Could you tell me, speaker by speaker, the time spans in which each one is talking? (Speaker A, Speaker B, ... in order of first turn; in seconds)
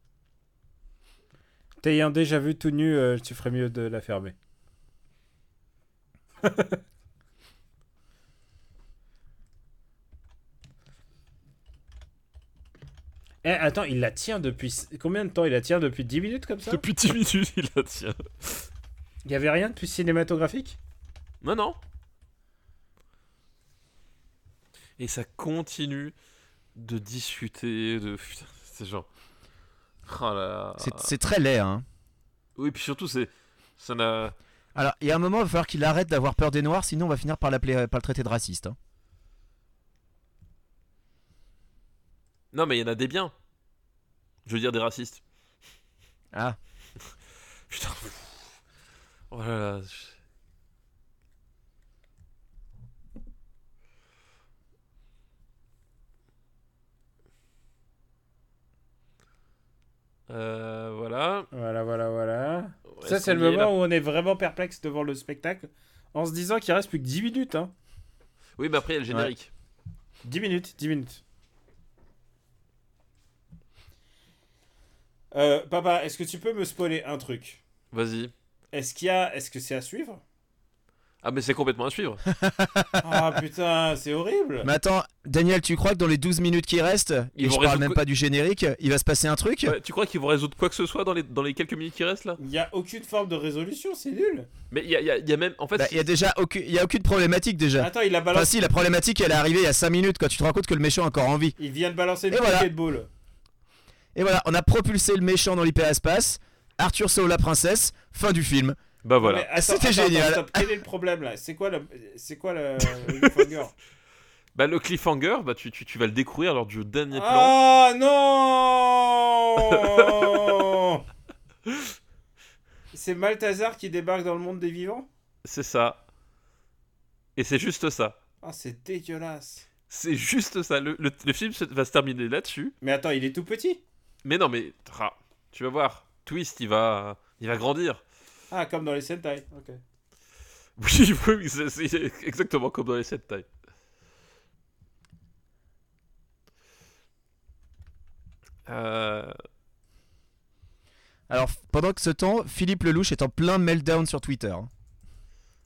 Speaker A: 1.8-4.3, 6.4-6.8, 13.4-16.8, 19.2-20.8, 61.5-67.7, 70.2-71.2, 75.3-77.6, 78.7-80.2, 83.0-84.7, 92.4-94.5, 97.8-98.5, 101.6-103.1, 109.2-113.7, 117.1-121.0, 122.9-125.1, 128.4-129.7, 132.8-133.8, 138.5-139.8
Speaker B: 16.7-18.6, 21.4-21.8, 25.0-26.1, 26.7-29.1, 30.1-31.1, 32.6-34.3, 42.5-43.3, 44.5-45.2, 47.7-48.3, 49.3-50.1, 60.3-61.5, 63.0-63.7, 68.6-69.5, 77.9-78.3, 81.2-82.2, 87.4-88.0, 89.6-92.4, 94.7-96.0, 109.0-109.5, 113.0-113.3, 114.5-117.5, 119.7-120.6, 125.4-126.0, 127.3-128.2, 129.9-132.7, 134.2-138.0, 140.8-143.5, 148.7-149.3
Speaker C: 30.8-31.8, 34.7-38.8, 82.3-83.2, 84.6-89.8, 95.8-101.5, 102.3-102.7, 104.1-108.8, 109.5-110.6, 151.3-154.7